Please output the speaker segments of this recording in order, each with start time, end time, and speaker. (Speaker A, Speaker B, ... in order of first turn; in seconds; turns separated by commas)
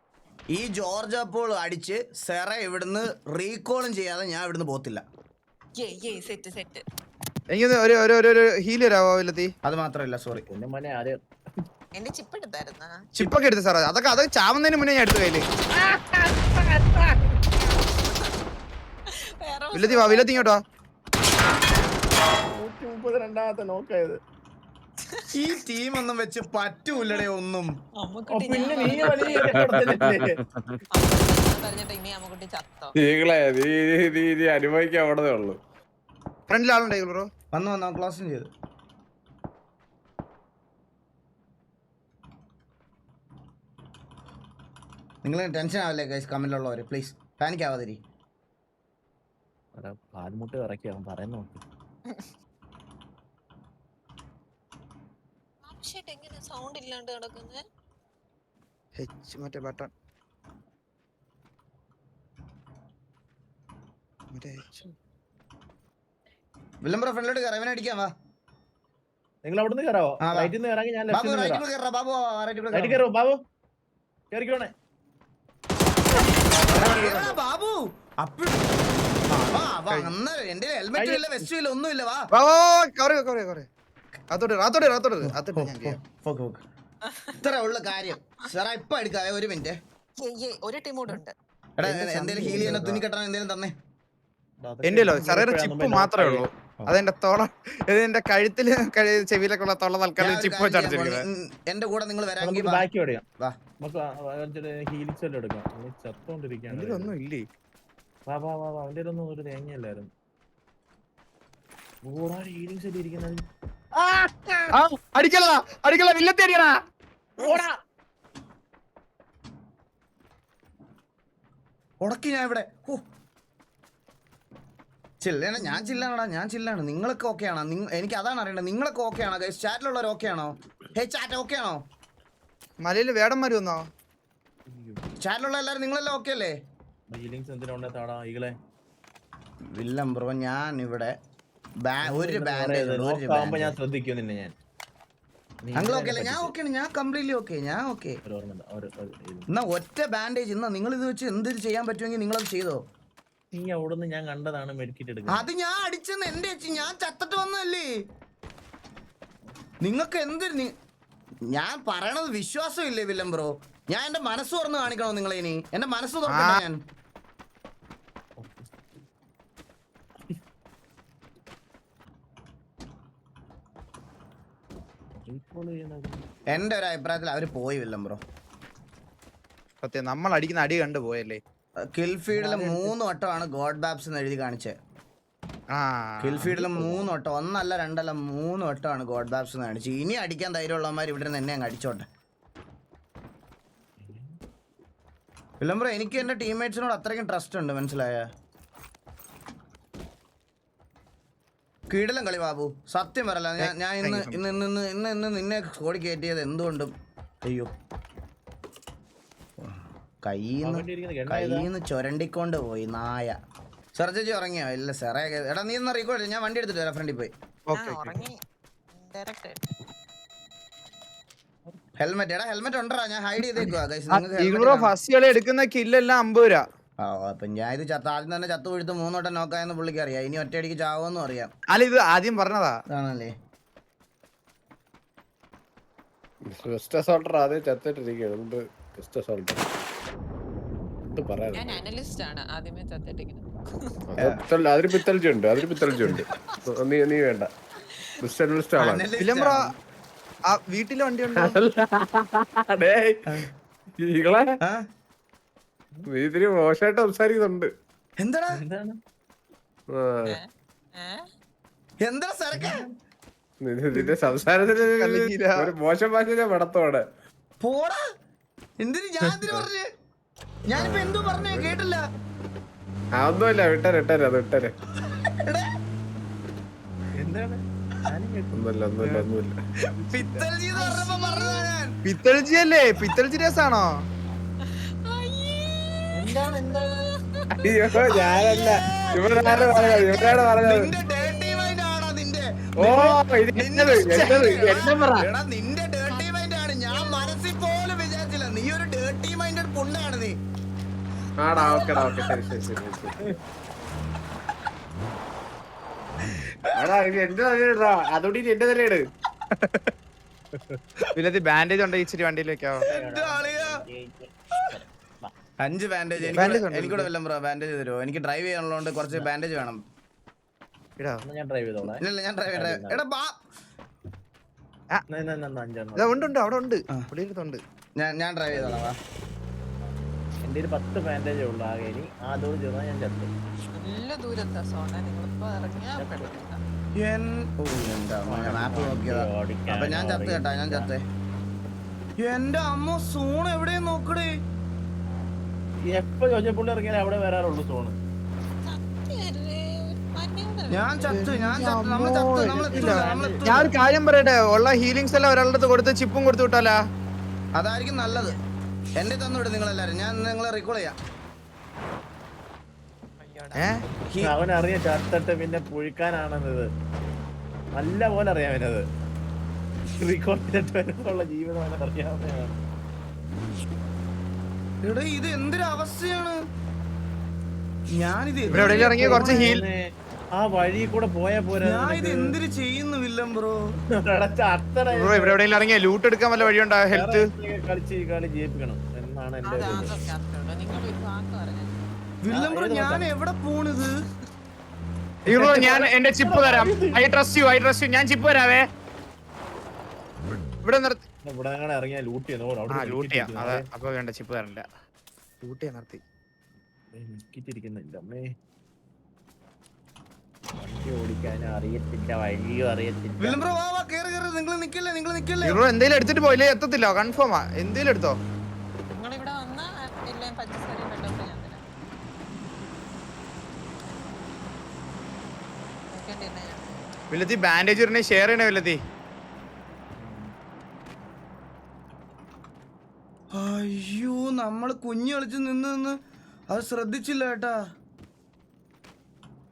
Speaker A: 0.5-5.0, Speaker B: 5.8-6.8, Speaker C: 7.5-9.5, Speaker A: 9.6-10.5, Speaker D: 10.3-11.2, Speaker B: 11.9-12.9, Speaker C: 13.1-15.4, Speaker D: 15.7-17.4, Speaker B: 18.0-18.3, Speaker B: 19.4-20.5, Speaker C: 19.7-20.6, Speaker D: 22.5-24.2, Speaker A: 25.3-27.7, Speaker B: 28.0-29.6, Speaker D: 28.3-30.4, Speaker E: 29.1-30.8, Speaker B: 30.9-32.9, Speaker E: 32.9-35.6, Speaker C: 36.5-37.3, Speaker A: 37.5-38.5, Speaker A: 45.2-48.0, Speaker D: 49.7-51.6, Speaker B: 55.6-57.6, Speaker C: 59.0-59.9, Speaker C: 64.3-64.9, Speaker A: 66.8-68.1, Speaker D: 69.4-71.6, Speaker A: 70.2-70.5, Speaker A: 71.1-73.0, Speaker D: 72.7-73.4, Speaker D: 74.3-74.7, Speaker A: 76.5-78.7, Speaker C: 76.7-77.4, Speaker C: 79.3-80.1, Speaker A: 79.5-82.3, Speaker D: 81.0-81.5, Speaker C: 82.3-83.7, Speaker C: 84.3-86.0, Speaker A: 85.2-86.6, Speaker A: 87.3-89.8, Speaker B: 90.2-91.3, Speaker A: 91.8-93.7, Speaker D: 91.8-93.0, Speaker C: 92.6-92.9, Speaker D: 94.6-96.5, Speaker C: 94.8-101.2, Speaker A: 100.2-102.8, Speaker D: 102.4-103.2, Speaker D: 103.8-107.1, Speaker C: 106.7-107.5, Speaker D: 108.2-110.1, Speaker D: 112.0-114.7, Speaker C: 114.7-116.7, Speaker D: 117.4-117.8, Speaker A: 122.0-123.0, Speaker A: 125.2-131.8, Speaker C: 132.8-133.9, Speaker D: 134.7-135.0, Speaker A: 135.2-136.6, Speaker D: 137.1-138.5, Speaker A: 139.7-141.1, Speaker A: 141.8-143.8, Speaker D: 142.0-144.5, Speaker D: 145.6-146.5, Speaker A: 145.7-148.2, Speaker D: 148.2-149.5, Speaker A: 149.5-152.8, Speaker D: 153.5-155.5, Speaker A: 155.3-157.9, Speaker A: 159.8-160.7, Speaker A: 161.5-166.8, Speaker C: 166.3-166.6, Speaker D: 168.4-168.7, Speaker D: 175.2-176.2, Speaker A: 176.5-178.2, Speaker C: 179.8-181.4, Speaker A: 181.9-184.7, Speaker D: 182.3-182.9, Speaker C: 185.7-186.5, Speaker A: 186.2-192.1, Speaker D: 186.4-187.1, Speaker D: 194.0-194.4, Speaker A: 195.6-198.3, Speaker A: 201.9-206.9, Speaker C: 203.6-204.6, Speaker A: 207.4-207.7, Speaker A: 209.6-213.4, Speaker D: 210.6-211.7, Speaker A: 213.9-217.3, Speaker C: 217.7-218.2, Speaker B: 217.7-218.4, Speaker B: 218.9-219.7, Speaker A: 222.0-224.9, Speaker C: 224.1-226.6, Speaker A: 227.0-231.5, Speaker C: 231.7-232.8, Speaker A: 232.9-233.3, Speaker E: 236.5-239.6, Speaker E: 241.0-241.8, Speaker B: 241.5-243.9, Speaker E: 244.1-247.5, Speaker E: 248.2-249.1, Speaker A: 248.8-249.7, Speaker C: 249.2-249.6, Speaker C: 250.5-251.6, Speaker E: 251.3-253.4, Speaker E: 254.0-254.5, Speaker E: 256.1-257.7, Speaker A: 258.2-258.6, Speaker D: 258.6-259.0, Speaker E: 259.9-260.4, Speaker B: 260.2-261.2, Speaker A: 262.0-262.9, Speaker D: 262.5-262.9, Speaker E: 263.6-267.0, Speaker C: 264.9-265.7, Speaker A: 267.6-268.0, Speaker A: 268.8-269.9, Speaker A: 270.7-272.0, Speaker E: 270.7-271.8, Speaker E: 273.2-274.7, Speaker A: 275.0-275.6, Speaker D: 277.2-279.3, Speaker E: 278.5-279.6, Speaker C: 280.0-280.5, Speaker A: 280.0-281.9, Speaker B: 280.7-281.7, Speaker C: 282.0-284.0, Speaker B: 284.6-287.0, Speaker D: 286.1-286.9, Speaker E: 287.6-290.9, Speaker B: 287.9-288.4, Speaker A: 288.1-300.4, Speaker B: 289.1-290.4, Speaker B: 291.0-291.8, Speaker E: 292.8-294.7, Speaker C: 294.0-295.2, Speaker B: 297.0-297.3, Speaker E: 301.4-303.4, Speaker E: 306.7-309.0, Speaker C: 309.6-309.9, Speaker C: 311.1-312.8, Speaker D: 312.9-315.3, Speaker A: 312.9-313.8, Speaker A: 315.6-319.8, Speaker D: 316.2-316.5, Speaker C: 316.3-317.1, Speaker D: 321.2-323.0, Speaker A: 321.9-323.3, Speaker D: 325.1-326.3, Speaker C: 326.0-327.6, Speaker A: 328.0-328.9, Speaker D: 328.5-328.8, Speaker D: 330.4-333.3, Speaker B: 333.8-336.6, Speaker D: 336.0-336.3, Speaker A: 337.0-341.0, Speaker D: 338.2-340.9, Speaker A: 342.2-344.3, Speaker D: 345.9-348.0, Speaker B: 348.6-351.2, Speaker A: 350.7-353.7, Speaker C: 351.0-356.8, Speaker D: 352.5-353.4, Speaker A: 357.6-358.3, Speaker B: 358.1-358.4, Speaker A: 359.0-360.9, Speaker B: 363.2-363.8, Speaker D: 364.2-366.7, Speaker D: 367.8-368.8, Speaker D: 370.0-372.6, Speaker A: 374.8-376.4, Speaker A: 378.0-379.6, Speaker D: 378.5-382.3, Speaker C: 378.5-379.6, Speaker A: 381.6-383.6, Speaker D: 384.0-385.4, Speaker C: 384.9-387.2, Speaker D: 386.4-389.9, Speaker B: 389.4-391.8, Speaker A: 392.2-394.0, Speaker D: 392.3-393.1, Speaker C: 395.2-398.7, Speaker D: 395.3-397.0, Speaker C: 400.6-401.0, Speaker D: 401.2-403.6, Speaker C: 402.7-404.6, Speaker C: 405.4-406.0, Speaker D: 406.9-408.3, Speaker D: 410.6-413.6, Speaker A: 413.2-415.6, Speaker C: 415.4-418.2, Speaker B: 418.9-421.6, Speaker B: 425.9-426.9, Speaker C: 427.1-428.8, Speaker D: 430.0-430.3, Speaker A: 433.3-436.0, Speaker A: 436.5-437.6